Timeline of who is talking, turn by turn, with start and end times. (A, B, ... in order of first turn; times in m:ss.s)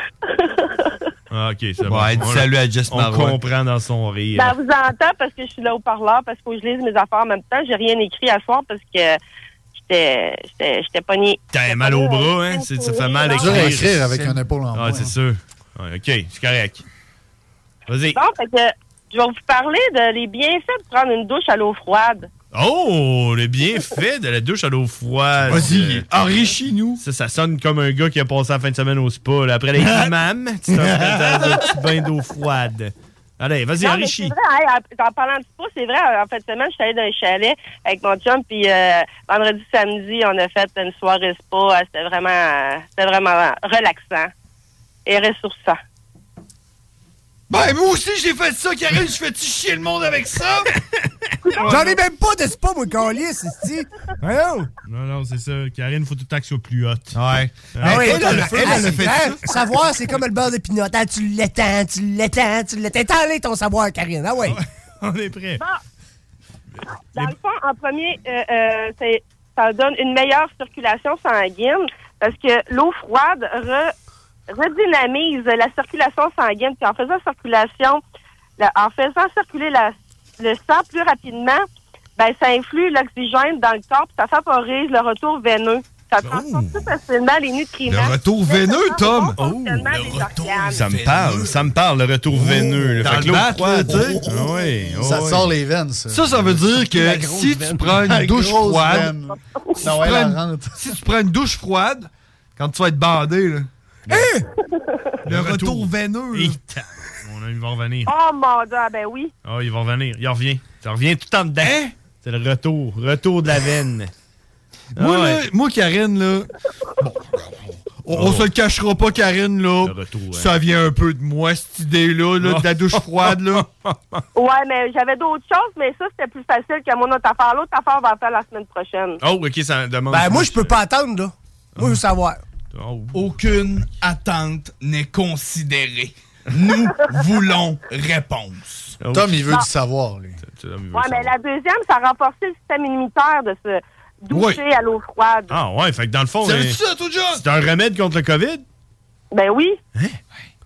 0:00.2-0:01.0 A
0:01.3-0:04.6 B
0:01.8-0:03.4 C
0:04.3-0:09.2 A
0:09.8-0:13.7 A
0:11.5-0:16.8 B
0:13.4-0:15.1 D
0:17.9-0:18.2 B
0:18.1-0:22.3 A
0:22.5-0:34.3 B
0:25.4-0:27.0 C
0:29.8-0:30.1 C
0:30.7-0:31.7 C
0:33.8-0:44.3 A
0:45.0-0:45.8 A
0:47.5-0:50.7 C
0:51.4-0:52.0 B
0:51.5-0:51.8 A
0:51.6-0:54.7 E
0:54.8-0:57.2 B
0:57.1-0:59.5 C
0:57.7-0:59.2 B
0:57.8-1:04.6 E
1:04.4-1:05.6 B
1:07.1-1:13.9 A
1:14.5-1:18.0 A
1:18.6-1:21.6 A
1:22.2-1:30.9 A
1:26.2-1:26.9 B
1:27.9-1:29.4 C
1:29.4-1:29.9 B
1:29.9-1:31.5 F
1:30.6-1:35.5 B
1:32.3-1:34.2 C
1:34.9-1:36.8 D
1:36.1-1:39.2 C
1:36.8-1:38.0 E
1:38.0-1:40.8 D
1:39.8-1:43.7 C
1:44.1-1:44.4 E
1:44.6-1:45.0 A
1:45.2-1:48.1 B
1:45.2-1:46.6 C
1:48.1-1:49.3 A
1:49.4-1:54.1 B
1:51.6-1:51.9 C
1:54.9-2:03.7 C
1:55.0-1:55.4 B
1:58.1-1:58.5 B
1:59.8-2:00.6 B
2:02.4-2:04.2 B
2:04.3-2:09.2 A
2:09.2-2:10.8 B
2:10.1-2:12.4 E
2:11.8-2:12.0 B
2:12.7-2:13.3 B
2:13.1-2:19.0 F
2:19.0-2:19.5 B
2:19.1-2:20.4 D
2:20.4-2:21.3 B
2:20.9-2:25.6 A
2:24.3-2:24.6 C
2:25.5-2:26.8 B
2:26.4-2:27.4 C
2:27.3-2:28.6 B
2:29.3-2:29.8 A